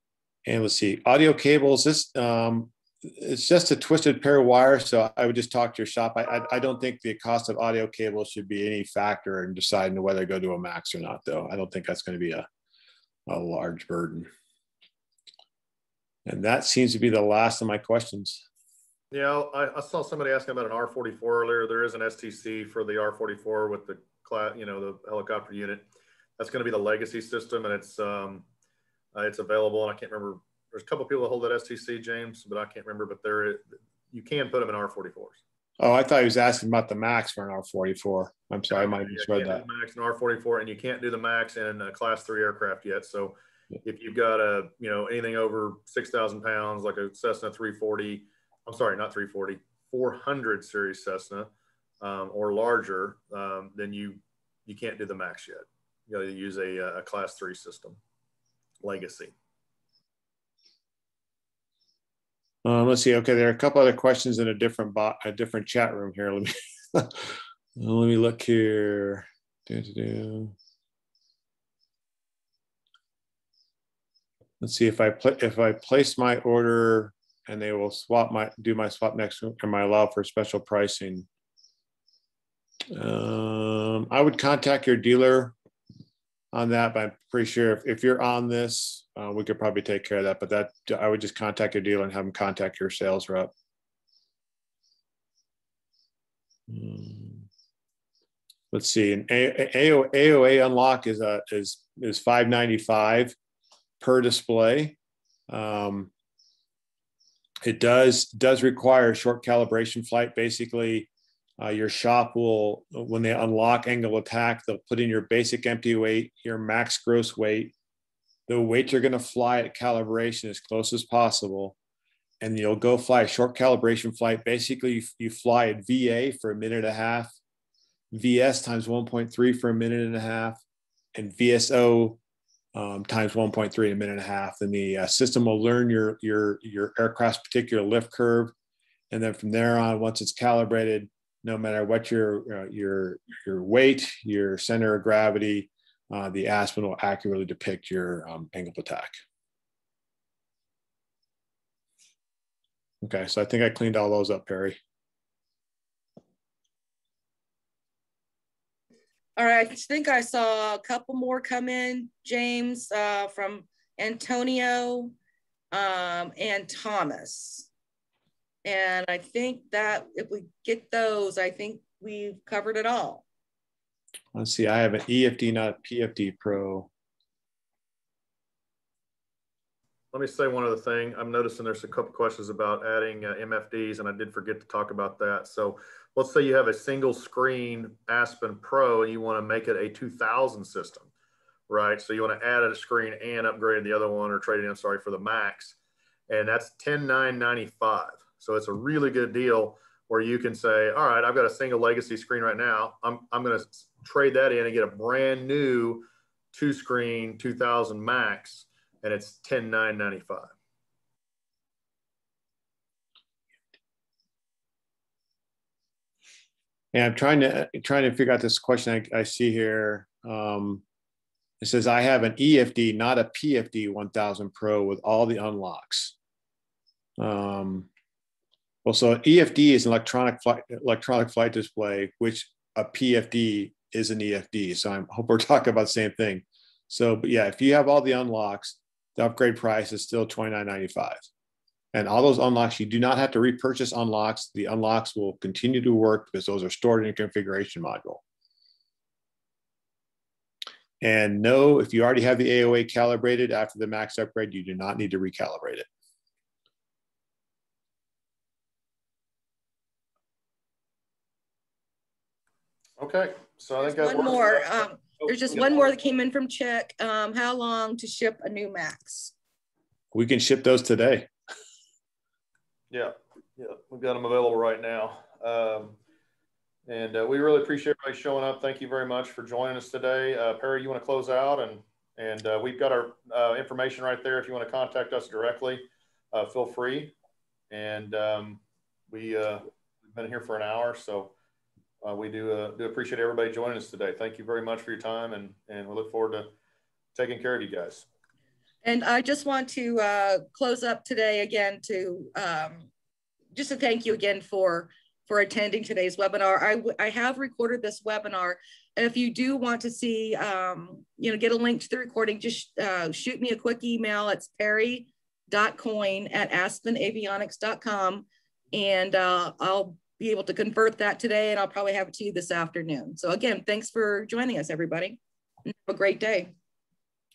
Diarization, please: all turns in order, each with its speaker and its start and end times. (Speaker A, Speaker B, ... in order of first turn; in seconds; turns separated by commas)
Speaker A: 0.5-12.5, Speaker A: 13.3-14.3, Speaker A: 16.3-18.4, Speaker B: 19.1-25.9, Speaker B: 26.4-28.5, Speaker B: 29.1-35.4, Speaker A: 35.8-39.6, Speaker B: 38.7-58.0, Speaker B: 58.8-59.3, Speaker A: 62.6-70.5, Speaker A: 74.6-81.3, Speaker A: 82.9-85.5, Speaker A: 86.5-93.5, Speaker A: 96.7-97.5, Speaker A: 98.7-103.3, Speaker A: 104.0-105.0, Speaker A: 105.5-106.1, Speaker A: 107.6-117.7, Speaker A: 118.5-121.8, Speaker A: 122.4-127.3, Speaker A: 128.1-130.6, Speaker A: 131.2-132.2, Speaker A: 132.7-138.5, Speaker A: 139.1-149.2, Speaker A: 153.0-154.8, Speaker C: 159.4-165.2, Speaker C: 165.7-167.7, Speaker C: 168.7-173.2, Speaker A: 174.3-176.9, Speaker B: 180.1-191.1, Speaker B: 191.7-195.8, Speaker B: 196.3-210.5, Speaker A: 216.9-220.8, Speaker A: 221.6-226.1, Speaker A: 227.2-227.9, Speaker A: 228.8-241.2, Speaker A: 241.9-248.2, Speaker A: 251.0-255.9, Speaker B: 263.0-265.9, Speaker C: 263.8-269.3, Speaker A: 270.1-271.3, Speaker B: 272.9-276.0, Speaker B: 276.9-287.1, Speaker B: 287.7-291.3, Speaker B: 292.0-296.5, Speaker B: 297.1-298.1, Speaker C: 298.8-302.9, Speaker C: 303.6-326.5